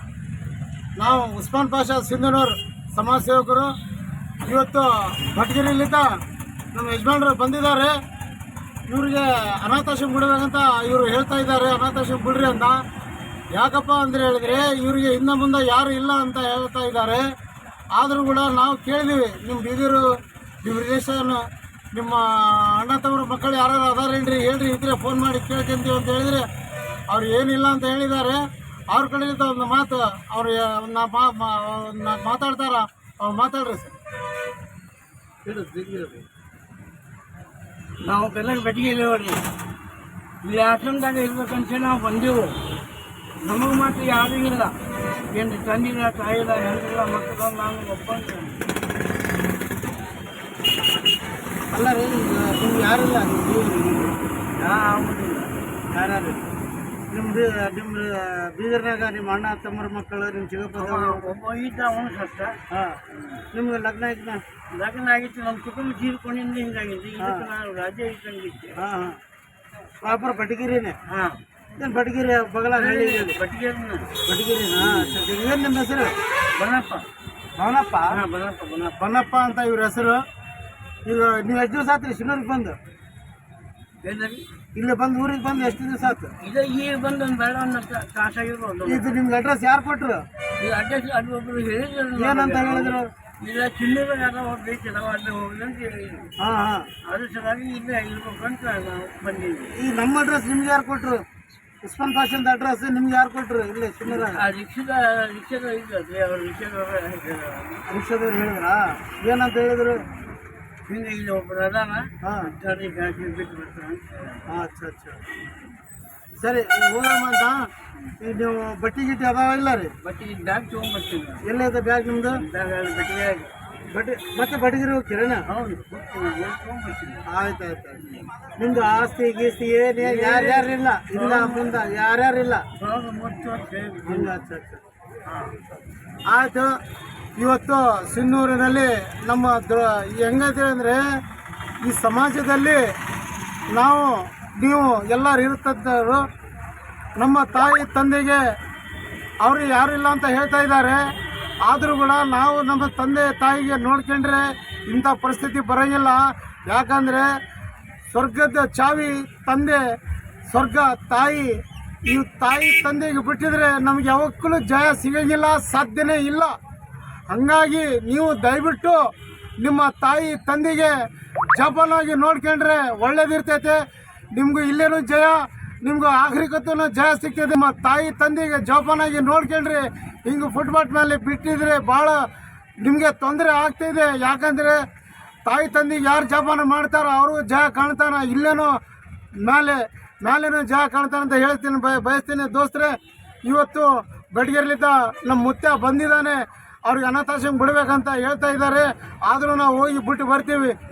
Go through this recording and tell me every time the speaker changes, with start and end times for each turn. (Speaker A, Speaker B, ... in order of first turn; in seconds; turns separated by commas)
Speaker A: 1.0-3.7, Speaker A: 4.5-6.0, Speaker A: 6.7-7.9, Speaker A: 8.9-12.8, Speaker A: 13.5-17.2, Speaker A: 17.9-20.0, Speaker A: 20.6-26.4, Speaker A: 27.1-28.4, Speaker A: 28.9-34.0, Speaker A: 35.5-36.2, Speaker B: 38.0-39.4, Speaker B: 40.4-42.6, Speaker B: 43.4-44.8, Speaker B: 45.3-48.6, Speaker A: 51.7-54.2, Speaker B: 54.5-55.5, Speaker A: 55.9-56.5, Speaker A: 57.1-61.3, Speaker B: 60.8-62.6, Speaker A: 62.7-64.4, Speaker B: 63.1-63.4, Speaker B: 64.7-68.8, Speaker A: 67.2-67.5, Speaker A: 68.8-69.2, Speaker A: 70.0-71.0, Speaker B: 71.1-71.4, Speaker A: 71.8-73.4, Speaker B: 72.7-74.1, Speaker A: 74.2-76.2, Speaker B: 74.8-75.2, Speaker B: 76.5-77.1, Speaker A: 77.6-78.2, Speaker B: 78.1-79.1, Speaker A: 79.0-80.2, Speaker A: 81.0-82.8, Speaker B: 84.0-84.5, Speaker A: 84.7-86.3, Speaker B: 86.4-89.2, Speaker A: 88.8-90.2, Speaker B: 90.6-96.3, Speaker A: 92.1-93.1, Speaker A: 96.4-96.9, Speaker B: 97.0-99.8, Speaker A: 99.7-101.2, Speaker A: 101.8-104.5, Speaker B: 104.0-107.8, Speaker A: 107.9-110.0, Speaker B: 110.9-114.4, Speaker A: 112.2-112.5, Speaker A: 114.5-115.2, Speaker A: 116.4-117.7, Speaker A: 118.2-119.9, Speaker B: 120.0-121.4, Speaker A: 121.4-122.4, Speaker B: 122.3-123.5, Speaker A: 123.9-125.4, Speaker B: 125.5-127.2, Speaker A: 127.3-132.6, Speaker B: 130.0-131.8, Speaker B: 132.8-134.4, Speaker A: 134.0-134.8, Speaker B: 135.2-135.8, Speaker A: 136.3-136.7, Speaker A: 137.4-141.0, Speaker A: 141.8-142.8, Speaker A: 143.7-146.2, Speaker A: 147.2-148.4, Speaker A: 149.4-151.0, Speaker A: 151.6-157.3, Speaker A: 158.1-159.8, Speaker A: 160.5-166.5, Speaker A: 167.3-169.0, Speaker A: 169.6-170.9, Speaker A: 171.5-173.8, Speaker A: 174.3-182.2, Speaker A: 182.8-184.8, Speaker A: 185.4-188.8, Speaker A: 189.4-200.8